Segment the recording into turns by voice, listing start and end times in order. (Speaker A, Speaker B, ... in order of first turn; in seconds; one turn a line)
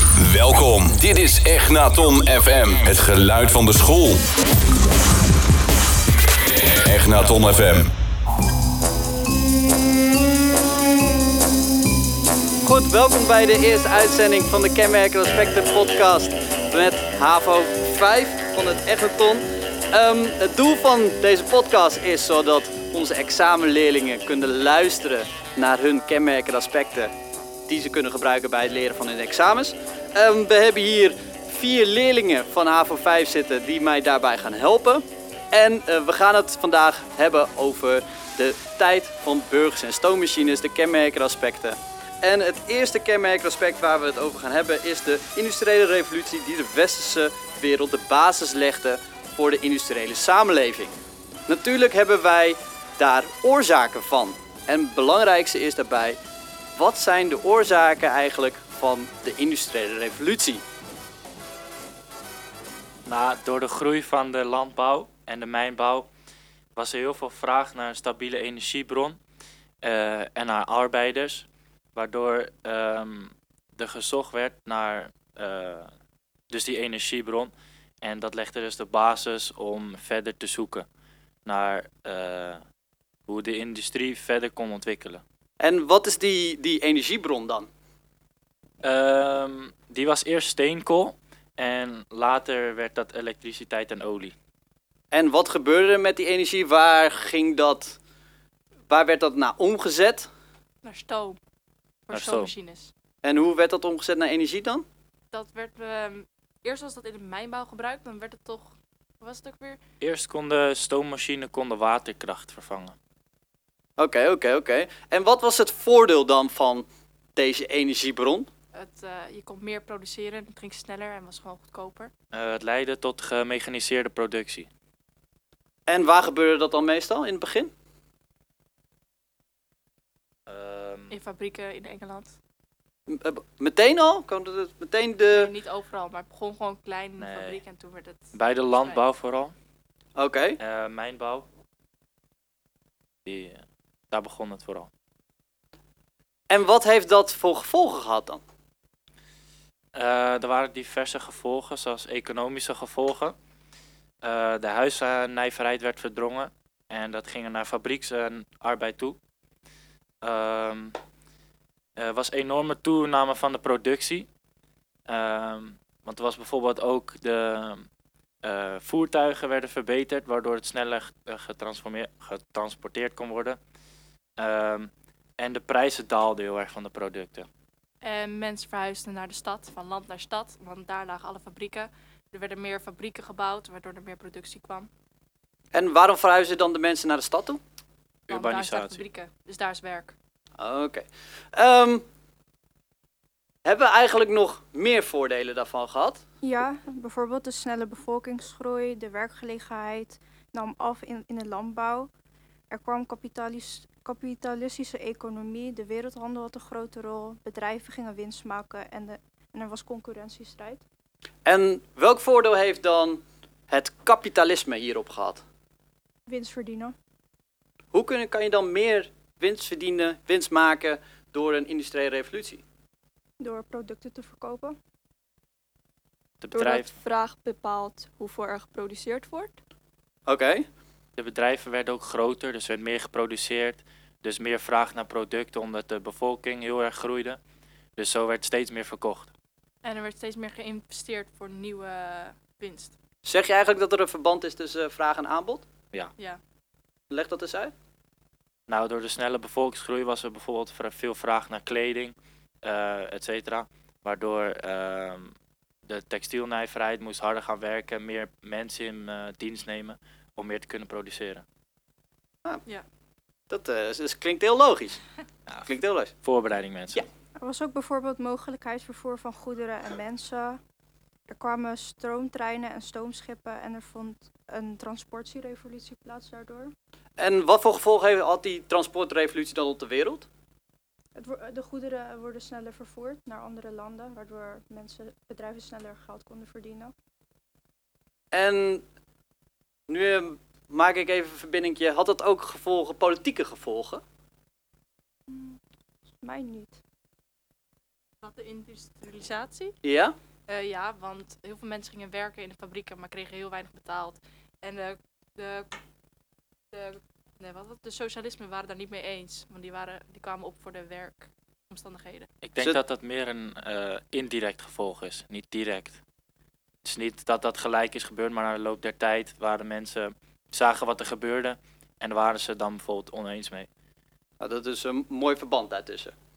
Speaker A: 0.2-4.3
Speaker A: 6.8-7.9
Speaker B: 12.6-27.1
Speaker B: 27.7-50.9
Speaker B: 51.5-56.2
Speaker B: 56.8-60.6
Speaker C: 63.1-66.1
Speaker C: 66.8-69.2
Speaker C: 69.8-75.9
Speaker C: 76.5-80.9
Speaker C: 81.5-82.6
Speaker C: 83.3-85.2
Speaker B: 85.6-87.7
Speaker C: 88.8-94.3
Speaker B: 95.1-98.0
Speaker B: 98.9-100.3
Speaker D: 100.8-101.4
Speaker D: 102.1-102.9
Speaker C: 102.1-102.5
Speaker B: 103.2-104.8
Speaker D: 105.3-109.8
Speaker C: 110.0-113.0
Speaker B: 114.0-118.5
Speaker D: 118.7-122.1
Speaker C: 122.3-124.7
Speaker B: 125.9-127.7
Speaker C: 130.5-131.2
Speaker D: 131.1-132.4
Speaker B: 133.1-135.5
Speaker D: 135.3-139.0
Speaker C: 137.2-137.6
Speaker C: 138.3-139.6
Speaker B: 140.2-140.6
Speaker C: 140.6-141.5
Speaker C: 143.2-144.9
Speaker B: 146.5-148.4
Speaker C: 149.9-153.4
Speaker C: 154.2-159.2
Speaker C: 160.2-161.0
Speaker C: 162.0-164.3
Speaker C: 165.1-167.9
Speaker C: 168.4-173.6
Speaker C: 174.4-177.5
Speaker D: 178.0-184.9
Speaker B: 185.7-187.6
Speaker C: 188.3-189.0
Speaker D: 188.3-190.2
Speaker B: 190.6-192.1
Speaker B: 193.7-196.2
Speaker E: 196.4-202.1
Speaker E: 202.7-210.8
Speaker B: 211.4-215.4
Speaker E: 216.3-216.9
Speaker B: 217.9-222.6
Speaker E: 223.4-224.8
Speaker C: 226.4-226.9
Speaker F: 226.5-229.6
Speaker B: 230.3-230.7
Speaker C: 231.2-237.4
Speaker C: 238.0-239.3
Speaker D: 239.8-243.0
Speaker B: 243.2-245.7
Speaker B: 247.1-247.7
Speaker C: 248.7-255.3
Speaker C: 255.8-261.4
Speaker B: 263.5-265.0
Speaker B: 265.7-266.1
Speaker C: 266.2-267.1
Speaker E: 267.4-270.6
Speaker E: 271.3-276.7
Speaker B: 277.2-280.3
Speaker E: 281.1-286.9
Speaker B: 288.3-288.8
Speaker B: 289.9-294.0
Speaker E: 295.3-295.6
Speaker E: 296.2-296.8
Speaker D: 298.2-299.8
Speaker B: 299.8-300.2
Speaker D: 300.5-305.7
Speaker D: 306.7-312.3
Speaker C: 312.4-316.0
Speaker C: 316.8-323.7
Speaker B: 324.4-326.1